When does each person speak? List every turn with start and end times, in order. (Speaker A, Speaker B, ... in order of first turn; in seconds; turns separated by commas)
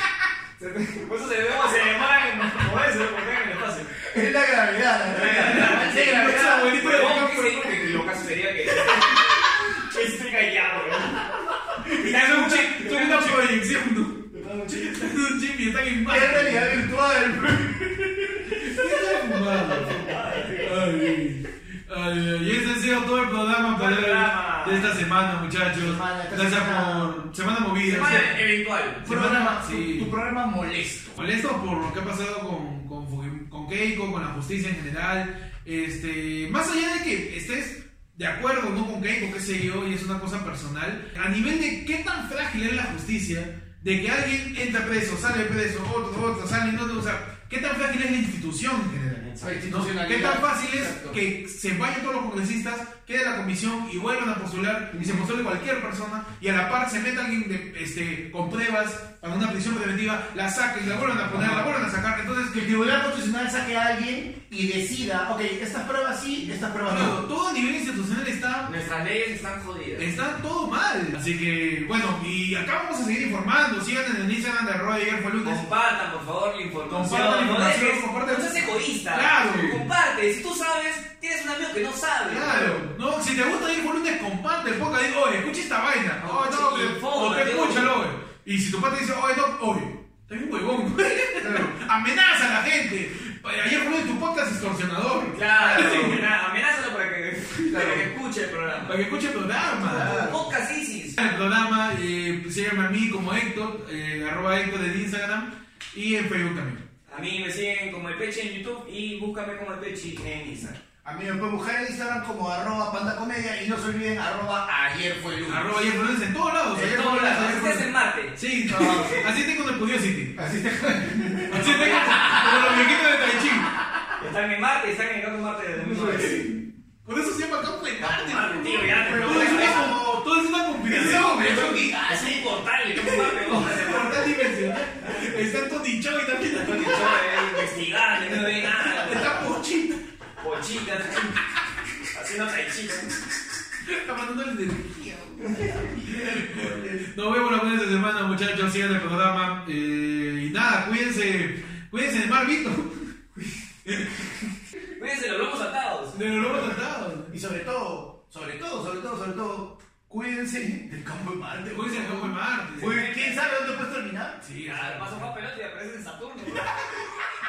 Speaker A: 0.6-3.9, Speaker B: 4.0-6.8, Speaker A: 5.1-13.4, Speaker C: 5.3-8.0, Speaker C: 11.8-16.8, Speaker A: 14.3-15.1, Speaker B: 16.1-20.0, Speaker C: 18.5-28.4, Speaker A: 19.6-20.8, Speaker A: 23.7-24.9, Speaker B: 25.7-27.1, Speaker A: 27.9-29.0, Speaker C: 29.0-30.1, Speaker B: 29.0-31.1, Speaker C: 31.1-62.6, Speaker B: 49.4-51.2, Speaker B: 54.9-55.2, Speaker B: 61.3-61.7, Speaker B: 62.5-67.2, Speaker C: 66.8-68.7, Speaker A: 68.6-70.1, Speaker C: 70.0-75.7, Speaker A: 75.4-82.8, Speaker C: 76.9-79.8, Speaker C: 82.2-96.2, Speaker A: 86.2-87.9, Speaker B: 91.4-91.7, Speaker A: 95.3-98.9, Speaker B: 97.7-98.0, Speaker C: 98.8-100.2, Speaker B: 99.8-100.5, Speaker A: 99.8-101.2, Speaker C: 101.2-106.8, Speaker A: 107.1-110.8, Speaker B: 111.0-115.8, Speaker C: 115.5-120.3, Speaker A: 116.7-118.3, Speaker B: 118.7-119.2, Speaker A: 118.9-119.2, Speaker B: 120.3-123.0, Speaker A: 121.5-122.5, Speaker C: 121.5-123.7, Speaker A: 124.2-126.5, Speaker B: 125.8-126.5, Speaker C: 127.0-131.9, Speaker A: 128.0-130.0, Speaker B: 128.8-130.2, Speaker B: 130.8-133.5, Speaker A: 131.9-134.3, Speaker C: 133.4-137.4, Speaker A: 136.5-139.4, Speaker C: 138.3-140.0, Speaker A: 140.4-141.4, Speaker A: 142.1-143.2, Speaker C: 143.8-153.1, Speaker B: 145.4-147.0, Speaker A: 154.9-156.2, Speaker C: 156.1-157.3, Speaker B: 157.3-164.4, Speaker C: 161.7-163.0, Speaker A: 162.8-163.7, Speaker C: 164.4-165.3, Speaker A: 164.6-167.1